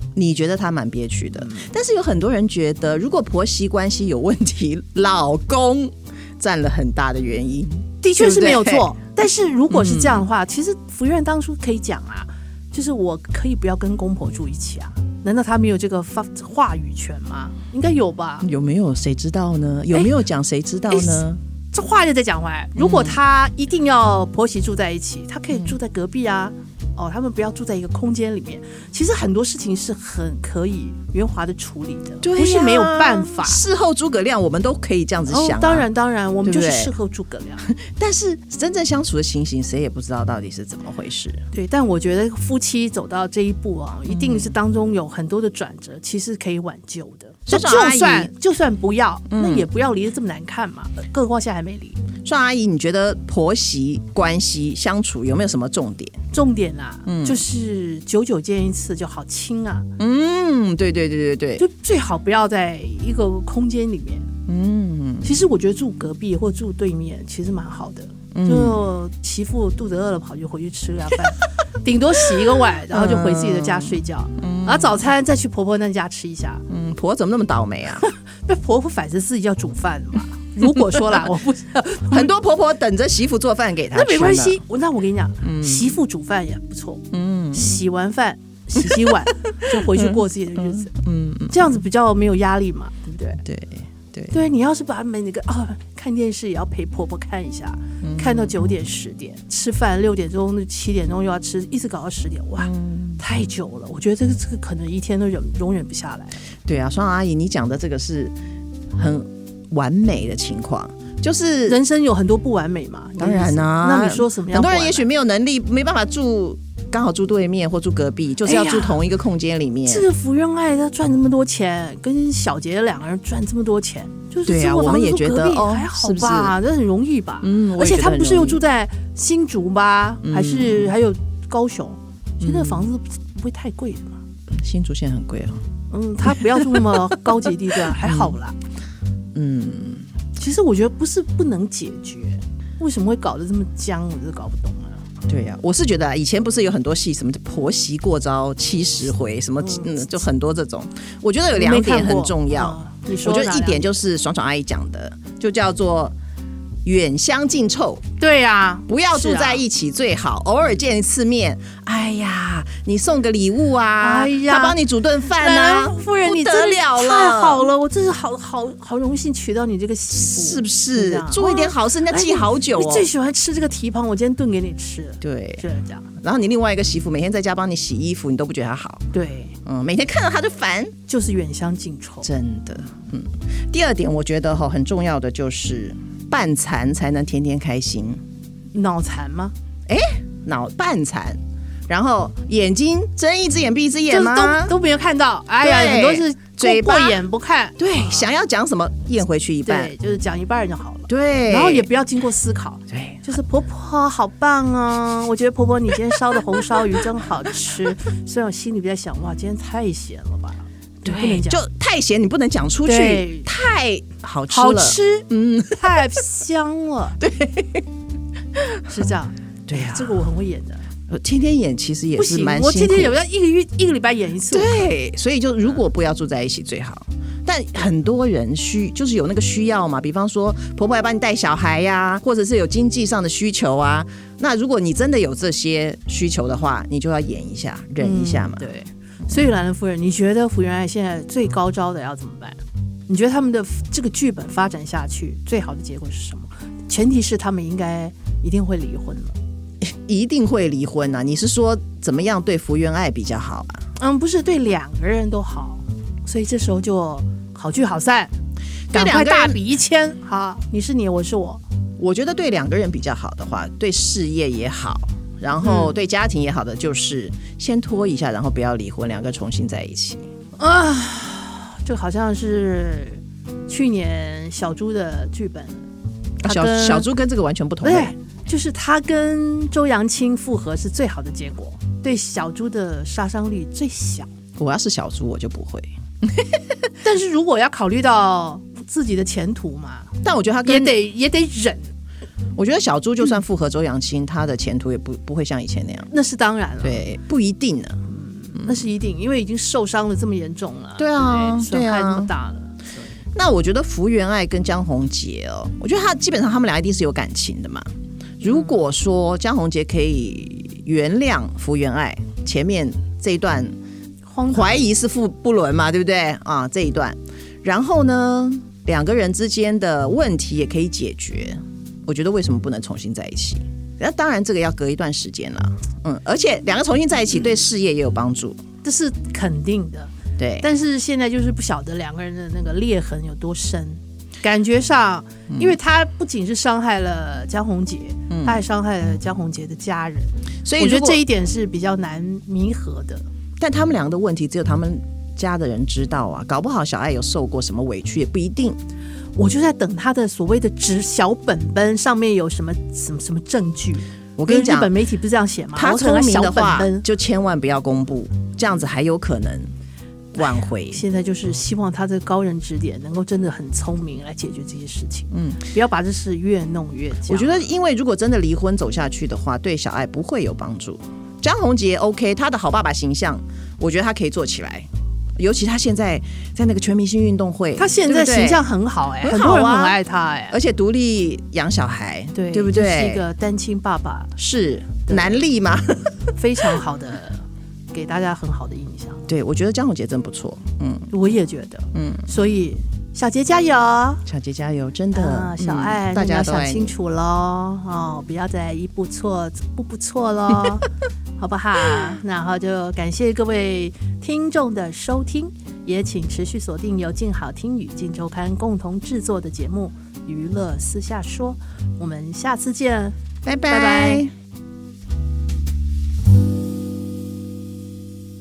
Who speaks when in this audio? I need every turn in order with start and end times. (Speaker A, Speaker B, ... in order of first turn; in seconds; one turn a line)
Speaker A: 0.1-8.9
Speaker B: 1.4-1.7
Speaker B: 8.0-18.5
Speaker A: 9.7-10.2
Speaker A: 18.4-21.4
Speaker B: 20.9-33.6
Speaker A: 22.8-23.2
Speaker A: 25.5-25.8
Speaker A: 32.2-35.9
Speaker B: 35.3-37.6
Speaker A: 36.4-36.9
Speaker A: 37.6-41.4
Speaker B: 41.5-52.0
Speaker A: 44.1-44.5
Speaker A: 47.5-48.3
Speaker A: 49.3-49.7
Speaker A: 52.2-56.2
Speaker B: 56.3-59.9
Speaker A: 57.0-57.4
Speaker A: 60.0-61.6
Speaker B: 61.6-64.3
Speaker A: 64.5-65.4
Speaker B: 65.2-76.6
Speaker A: 68.3-68.8
Speaker A: 72.9-75.0
Speaker A: 76.7-78.1
Speaker B: 78.0-82.3
Speaker A: 82.1-84.6
Speaker B: 83.9-90.9
Speaker A: 85.4-85.9
Speaker A: 87.1-87.8
Speaker A: 88.8-91.7
Speaker B: 91.5-93.4
Speaker A: 93.4-94.4
Speaker B: 94.3-106.4
Speaker A: 98.0-98.5
Speaker A: 102.6-103.2
Speaker A: 106.6-108.3
Speaker A: 108.9-111.8
Speaker B: 111.7-115.1
Speaker A: 113.2-120.1
Speaker B: 118.4-119.0
Speaker B: 119.8-134.2
Speaker A: 124.5-126.5
Speaker A: 127.4-128.6
Speaker A: 130.2-130.9
Speaker A: 132.4-132.9
Speaker A: 134.5-135.6
Speaker B: 135.9-138.6
Speaker A: 136.3-137.1
Speaker A: 137.8-138.4
Speaker A: 139.3-140.1
Speaker B: 140.4-145.0
Speaker A: 145.3-156.1
Speaker B: 149.6-149.9
Speaker B: 151.5-154.0
Speaker A: 156.8-158.0
Speaker B: 158.2-159.6
Speaker A: 158.9-167.6
Speaker B: 164.0-176.1
Speaker A: 170.1-173.1
Speaker A: 175.2-175.6
Speaker A: 176.2-179.1
Speaker B: 179.1-179.5
Speaker A: 179.6-180.9
Speaker B: 181.1-182.3
Speaker A: 182.2-188.2
Speaker B: 188.7-189.5
Speaker A: 189.9-194.7
Speaker B: 194.1-198.3
Speaker A: 195.6-197.2
Speaker A: 197.8-199.9
Speaker B: 199.6-211.6
Speaker A: 201.1-201.9
Speaker A: 202.9-203.2
Speaker A: 211.0-216.0
Speaker B: 212.8-213.5
Speaker B: 214.5-217.2
Speaker A: 217.2-217.8
Speaker B: 218.9-220.8
Speaker A: 219.7-220.2
Speaker A: 221.1-223.2
Speaker B: 222.2-224.9
Speaker A: 224.5-238.7
Speaker B: 238.0-249.3
Speaker A: 249.8-253.8
Speaker B: 254.0-258.3
Speaker A: 258.9-259.6
Speaker B: 258.9-261.6
Speaker A: 262.0-270.2
Speaker B: 265.6-265.9
Speaker B: 270.6-275.8
Speaker A: 276.4-278.1
Speaker B: 276.4-277.1
Speaker B: 277.8-284.3
Speaker A: 284.6-286.6
Speaker B: 287.0-290.1
Speaker A: 290.2-291.0
Speaker B: 290.6-291.9
Speaker A: 292.6-296.1
Speaker B: 296.1-297.1
Speaker A: 296.8-298.0
Speaker B: 298.1-303.2
Speaker A: 298.6-298.8
Speaker A: 301.0-302.3
Speaker A: 303.3-307.9
Speaker A: 308.4-313.7
Speaker B: 308.4-308.8
Speaker B: 314.3-314.9
Speaker A: 314.5-328.6
Speaker B: 328.8-343.2
Speaker A: 330.4-330.7
Speaker A: 335.5-335.8
Speaker A: 338.3-338.6
Speaker A: 340.6-341.2
Speaker A: 343.6-348.8
Speaker B: 349.4-357.0
Speaker A: 354.4-354.9
Speaker A: 355.8-359.7
Speaker A: 360.3-361.0
Speaker B: 360.4-367.7
Speaker A: 365.3-365.6
Speaker A: 367.3-378.6
Speaker B: 377.8-380.6
Speaker A: 379.2-380.0
Speaker A: 380.5-383.2
Speaker B: 382.3-384.4
Speaker A: 384.4-386.3
Speaker B: 385.1-385.4
Speaker B: 386.4-389.2
Speaker A: 389.3-391.1
Speaker B: 391.1-394.2
Speaker A: 391.9-392.3
Speaker A: 394.2-396.9
Speaker B: 395.1-400.9
Speaker B: 401.4-413.1
Speaker A: 413.4-414.3
Speaker B: 413.7-414.2